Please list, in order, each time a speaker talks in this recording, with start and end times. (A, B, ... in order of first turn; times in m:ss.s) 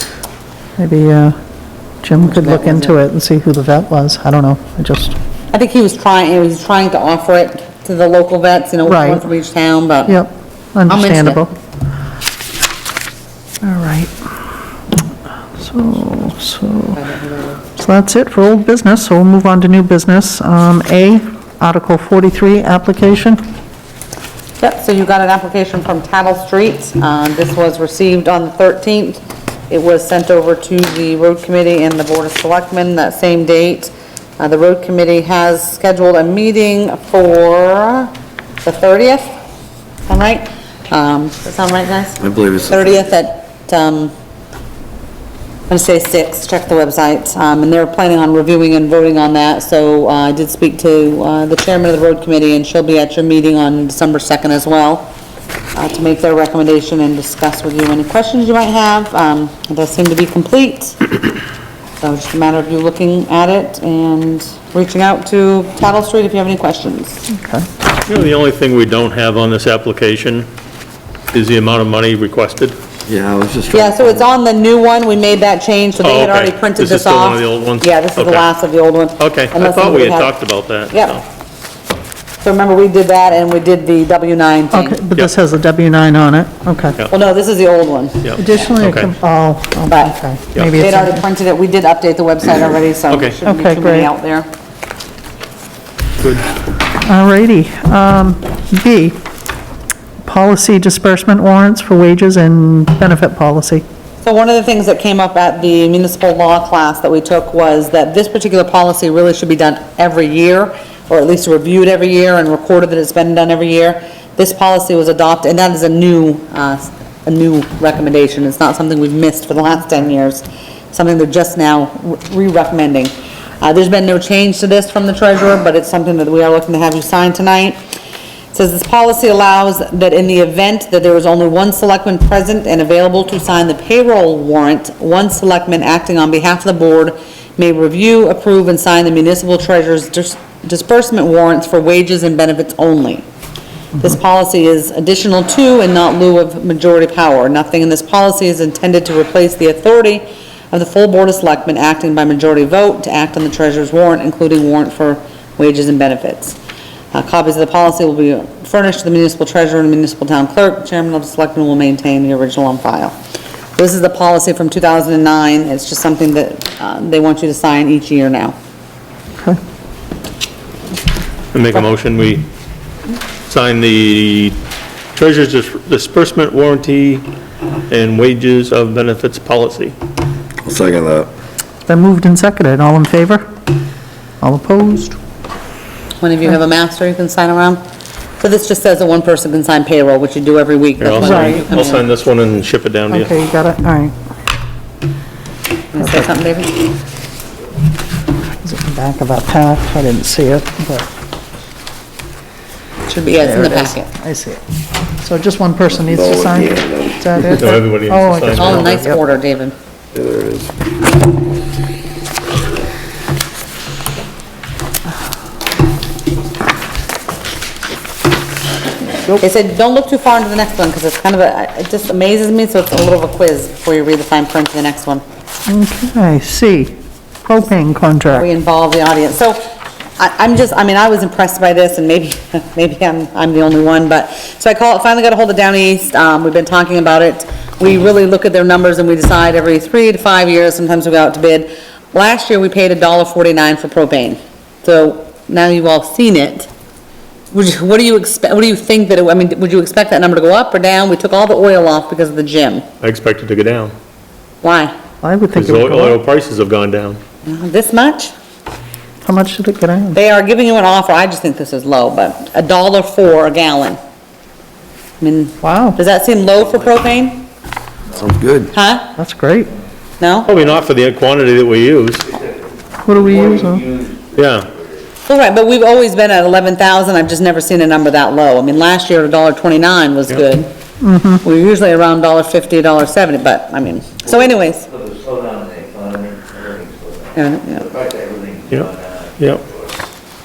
0:00.8-0:01.4 A
0:02.0-0:05.2 A
0:02.2-0:03.0 B
0:05.5-0:10.2 B
0:08.9-0:09.2 A
0:10.1-0:11.5 A
0:10.9-0:11.5 B
0:13.6-0:14.2 A
0:15.6-0:17.0 A
0:17.0-0:17.6 B
0:17.8-0:23.4 A
0:24.6-0:38.1 B
0:38.6-0:39.3 B
0:40.1-0:44.1 B
0:42.2-0:43.0 C
0:45.7-0:55.1 B
0:55.7-1:01.0 B
1:02.0-1:07.2 B
1:07.3-1:07.7 A
1:08.1-1:10.5 D
1:11.3-1:12.8 D
1:13.1-1:14.2 C
1:13.7-1:20.3 B
1:16.0-1:18.5 D
1:19.2-1:21.2 D
1:20.9-1:21.2 B
1:22.4-1:25.0 B
1:24.7-1:27.0 A
1:27.1-1:28.3 B
1:28.2-1:29.1 D
1:28.4-1:31.2 A
1:29.9-1:30.2 B
1:30.5-1:30.8 D
1:30.7-1:34.5 B
1:33.1-1:33.4 D
1:33.4-1:34.1 A
1:36.2-1:36.5 D
1:37.0-1:39.2 A
1:40.2-1:43.8 A
1:44.2-2:07.8 B
2:08.5-2:23.3 B
2:24.0-2:36.6 B
2:37.1-2:43.2 B
2:43.8-2:48.6 B
2:51.5-2:52.5 D
2:53.5-2:54.6 D
2:55.1-2:57.3 D
2:57.9-3:00.0 D
3:00.6-3:01.3 C
3:01.9-3:03.5 A
3:04.4-3:05.2 A
3:06.2-3:07.8 B
3:08.4-3:12.1 B
3:11.0-3:13.3 D
3:11.2-3:11.6 A
3:13.1-3:14.1 A
3:15.9-3:16.8 B
3:16.0-3:16.3 A
3:18.6-3:21.1 A
3:23.1-3:24.1 B
3:23.4-3:24.6 A
3:25.2-3:29.2 A
3:26.0-3:27.2 C
3:27.4-3:29.1 D
3:28.6-3:29.8 B
3:30.1-3:30.8 C
3:39.3-3:45.2 B
3:45.7-3:48.5 A
3:48.3-3:49.6 B
3:50.2-4:06.7 B
4:07.5-4:12.8 B
4:13.0-4:13.9 D
4:14.6-4:14.9 B
4:15.2-4:16.2 A
4:15.5-4:17.2 D
4:17.4-4:18.3 B
4:19.2-4:20.2 A
4:20.1-4:24.0 B
4:25.2-4:27.4 B
4:25.6-4:26.0 A
4:28.2-4:28.7 C
4:28.7-4:29.1 B
4:29.2-4:29.7 A
4:30.2-4:30.5 B
4:30.5-4:32.3 D
4:33.0-4:33.9 A
4:34.3-4:34.7 D
4:35.2-4:40.7 B
4:41.0-4:41.4 A
4:41.4-4:44.9 B
4:45.3-4:47.0 E
4:47.4-4:47.9 B
4:48.1-4:48.6 E
4:48.7-4:49.6 D